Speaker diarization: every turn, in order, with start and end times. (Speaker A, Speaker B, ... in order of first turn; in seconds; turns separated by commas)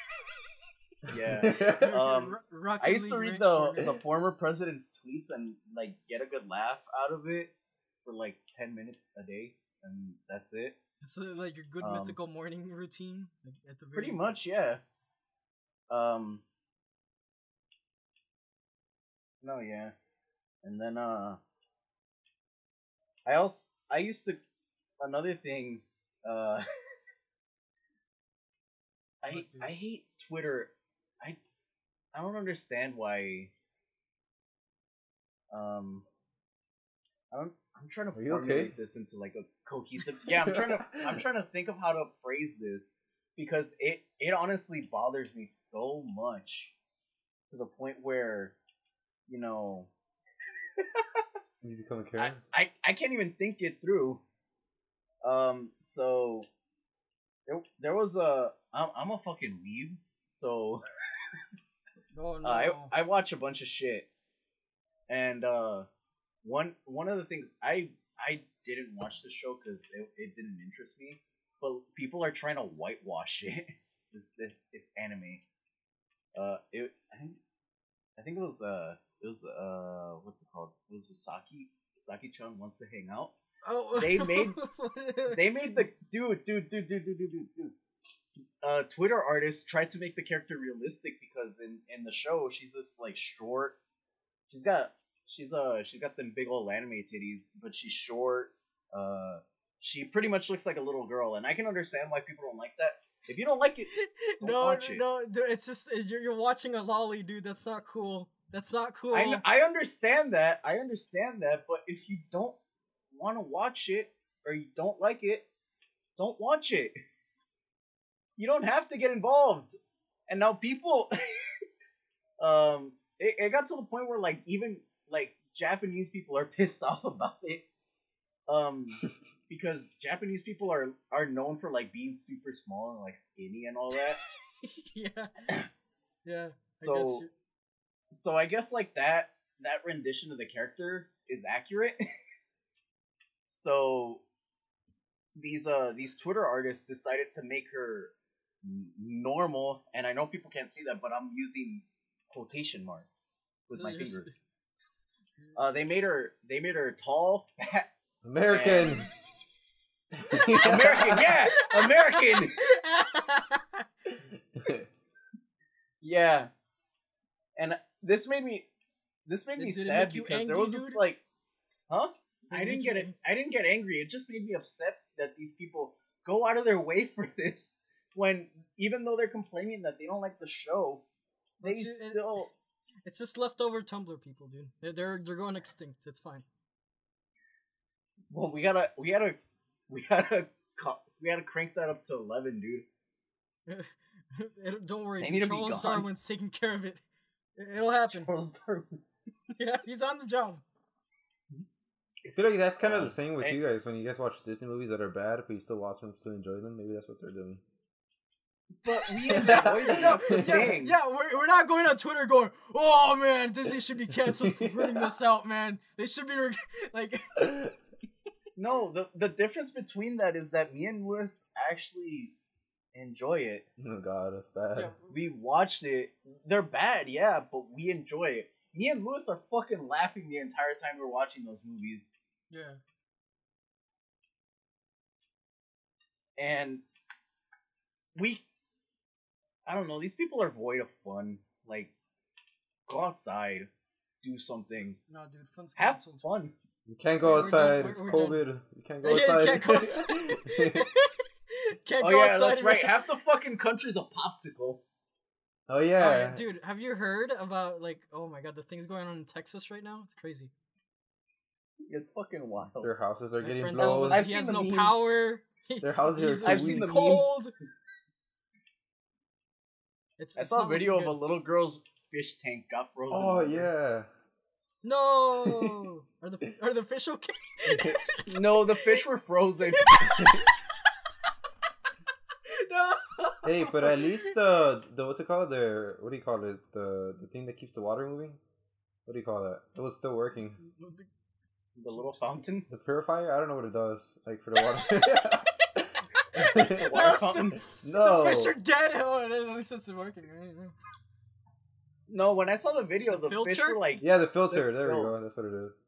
Speaker A: 1.1-7.5, Speaker B: 1.1-1.9, Speaker C: 1.5-3.9, Speaker A: 8.1-10.8, Speaker C: 11.0-14.4, Speaker A: 11.8-12.2, Speaker A: 13.9-14.8, Speaker A: 15.9-16.4, Speaker A: 19.4-19.9, Speaker A: 20.6-21.4, Speaker A: 23.3-24.4, Speaker A: 25.0-26.6, Speaker A: 29.2-31.4, Speaker C: 29.3-29.7, Speaker A: 32.1-33.5, Speaker A: 35.5-36.0, Speaker A: 37.3-46.7, Speaker B: 38.1-38.7, Speaker B: 40.3-41.2, Speaker A: 47.5-48.5, Speaker A: 49.3-49.9, Speaker A: 50.8-51.2, Speaker B: 51.6-52.4, Speaker A: 52.2-54.2, Speaker A: 55.2-56.5, Speaker A: 57.5-60.9, Speaker C: 62.1-62.9, Speaker A: 62.4-64.1, Speaker A: 65.1-65.9, Speaker A: 66.4-75.4, Speaker A: 76.3-77.4, Speaker A: 78.2-83.3, Speaker C: 83.7-85.9, Speaker A: 84.0-84.6, Speaker A: 85.3-87.7, Speaker A: 88.6-93.8, Speaker A: 94.5-105.0, Speaker C: 103.9-109.4, Speaker A: 109.1-112.6, Speaker A: 113.1-115.5, Speaker A: 116.2-116.9, Speaker A: 118.4-119.8, Speaker A: 120.3-121.5, Speaker A: 122.4-127.6, Speaker A: 128.5-134.2, Speaker C: 134.6-135.4, Speaker C: 136.2-137.3, Speaker A: 136.8-137.2, Speaker A: 138.1-142.0, Speaker A: 143.5-144.2, Speaker A: 145.4-154.4, Speaker C: 153.7-154.3, Speaker A: 155.6-157.9, Speaker B: 158.2-159.1, Speaker A: 158.5-159.0, Speaker B: 160.1-161.4, Speaker A: 160.5-162.6, Speaker C: 161.5-163.8, Speaker B: 164.6-164.9, Speaker A: 166.0-166.5, Speaker A: 167.6-168.7, Speaker A: 169.3-171.2, Speaker C: 169.6-171.0, Speaker A: 171.9-181.0, Speaker C: 172.5-173.1, Speaker C: 181.6-182.4, Speaker A: 181.6-182.5, Speaker C: 183.1-186.5, Speaker A: 188.3-189.4, Speaker A: 189.9-192.9, Speaker C: 193.7-197.0, Speaker A: 195.2-196.1, Speaker C: 197.6-198.3, Speaker A: 198.1-199.0, Speaker C: 199.6-200.6, Speaker B: 202.3-207.6, Speaker A: 202.8-203.6, Speaker A: 208.8-211.0, Speaker C: 208.9-217.4, Speaker B: 209.3-210.8, Speaker B: 214.2-215.1, Speaker B: 217.4-217.7, Speaker A: 218.6-222.3, Speaker A: 222.9-223.7, Speaker B: 223.8-224.9, Speaker C: 224.8-225.1, Speaker A: 225.1-232.1, Speaker C: 232.5-232.8, Speaker A: 236.4-236.8, Speaker A: 238.2-238.4, Speaker A: 239.7-241.9, Speaker A: 242.9-243.7, Speaker A: 244.2-245.0, Speaker C: 245.1-246.3, Speaker A: 245.8-246.5, Speaker B: 246.9-250.9, Speaker C: 247.2-248.4, Speaker C: 249.0-253.0, Speaker A: 252.0-254.8, Speaker B: 255.7-256.4, Speaker C: 256.0-260.5, Speaker A: 261.9-262.9, Speaker B: 262.8-264.2, Speaker C: 263.4-267.5, Speaker A: 263.8-265.0, Speaker B: 265.8-267.0, Speaker A: 266.4-267.3, Speaker C: 270.2-271.2, Speaker A: 270.4-273.7, Speaker B: 273.1-274.1, Speaker C: 274.8-279.0, Speaker B: 277.7-278.0, Speaker A: 278.3-280.2, Speaker C: 279.7-280.5, Speaker C: 282.5-284.3, Speaker B: 283.4-288.4, Speaker B: 289.1-290.6, Speaker C: 290.6-291.1, Speaker A: 291.8-292.7, Speaker C: 291.9-292.4, Speaker B: 292.7-297.1, Speaker C: 296.2-300.8, Speaker A: 296.7-297.6, Speaker B: 297.7-298.6, Speaker A: 302.1-305.1, Speaker C: 303.1-303.8, Speaker B: 304.0-305.7